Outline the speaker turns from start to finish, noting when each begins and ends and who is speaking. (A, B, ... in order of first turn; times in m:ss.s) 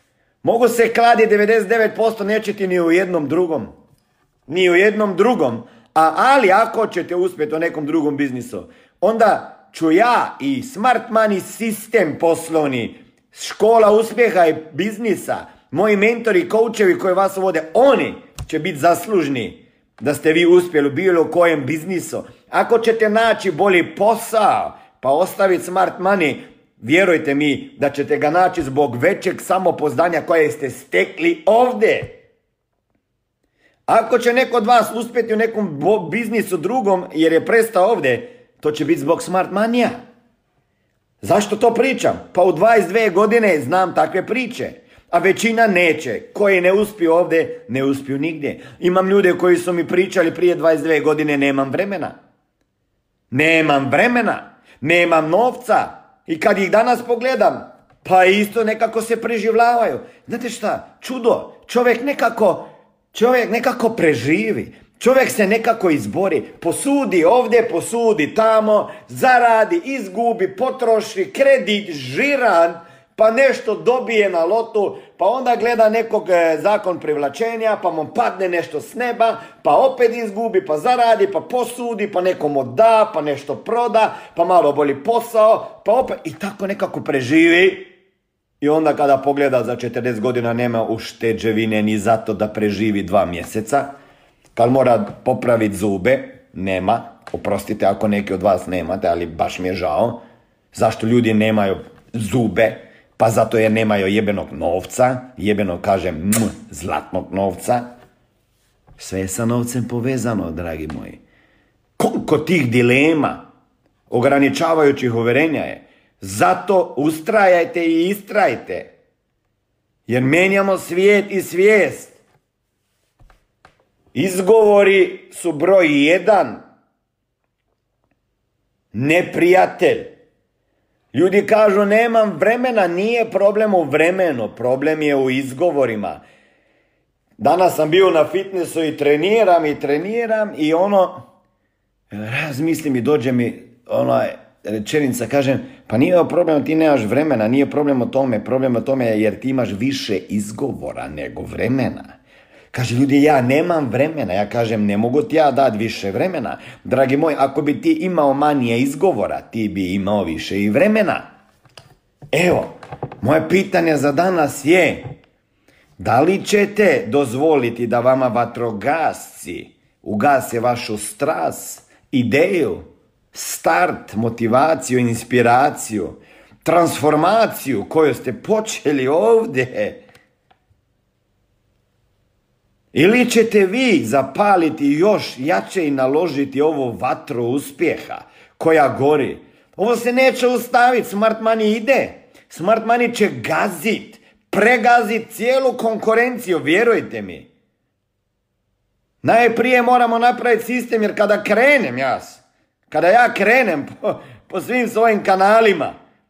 0:00.4-0:03.7 A
0:04.5-0:32.2 A
0:33.9-0:40.0 A
0:41.2-0:52.2 A
0:53.3-1:27.9 A
1:28.6-1:33.9 A
1:34.6-1:40.2 A
1:40.7-1:47.9 A
1:49.0-1:51.2 A
1:52.0-1:53.4 A
1:54.1-1:58.9 A
2:00.1-2:02.2 A
2:04.1-2:06.6 A
2:08.9-2:10.1 A
2:11.1-2:16.2 A
2:17.4-2:21.2 A
2:22.1-2:32.2 A
2:32.7-2:41.2 A
2:42.3-2:45.1 A
2:46.0-3:00.0 A
3:02.9-3:17.5 A
3:19.2-3:26.0 A